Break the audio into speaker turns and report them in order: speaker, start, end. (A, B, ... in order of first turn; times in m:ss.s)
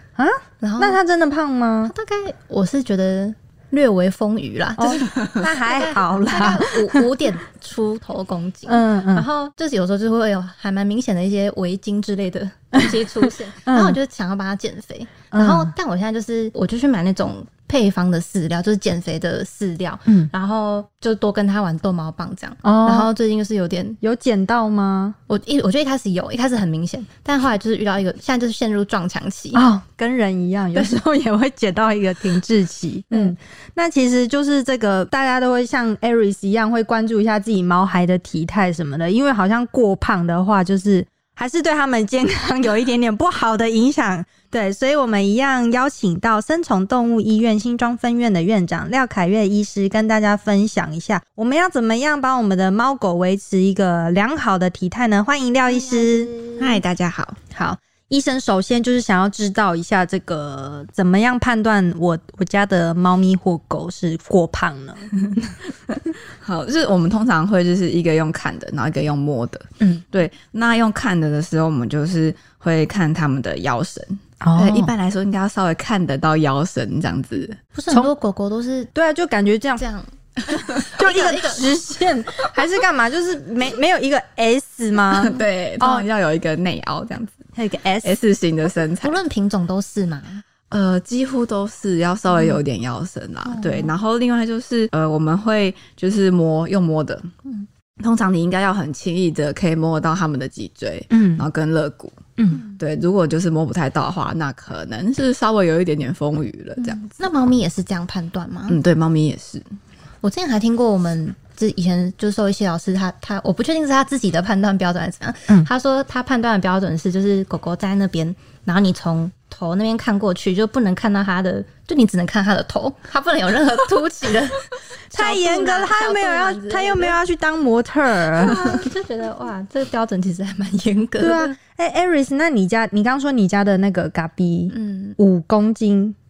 0:00.2-0:01.9 A
0:00.6-0:01.0 B
0:01.9-0:24.0 B
0:04.8-0:07.0 A
0:08.7-0:09.2 A
0:13.7-0:14.0 A
0:15.3-0:15.7 A
0:22.6-0:23.1 A
0:24.0-0:25.2 A
0:25.3-0:29.6 B
0:29.5-0:56.3 A
0:30.7-0:31.0 B
0:55.7-0:56.8 B
0:56.6-0:57.4 C
0:57.5-1:05.3 A
1:06.4-1:17.6 C
1:14.4-1:14.9 A
1:17.7-1:18.9 B
1:18.9-1:19.8 A
1:19.8-1:20.1 B
1:20.5-1:26.1 A
1:20.9-1:21.7 B
1:25.1-1:27.4 C
1:27.5-1:28.2 A
1:28.0-1:29.2 C
1:29.0-1:30.4 B
1:30.7-1:37.3 C
1:33.5-1:33.9 B
1:38.0-1:47.2 C
1:41.1-1:41.5 A
1:42.4-1:42.6 A
1:46.8-1:48.8 B
1:48.7-1:49.6 C
1:50.2-2:07.2 B
2:05.1-2:08.7 A
2:08.4-2:11.5 B
2:11.2-2:16.2 A
2:14.7-2:15.2 B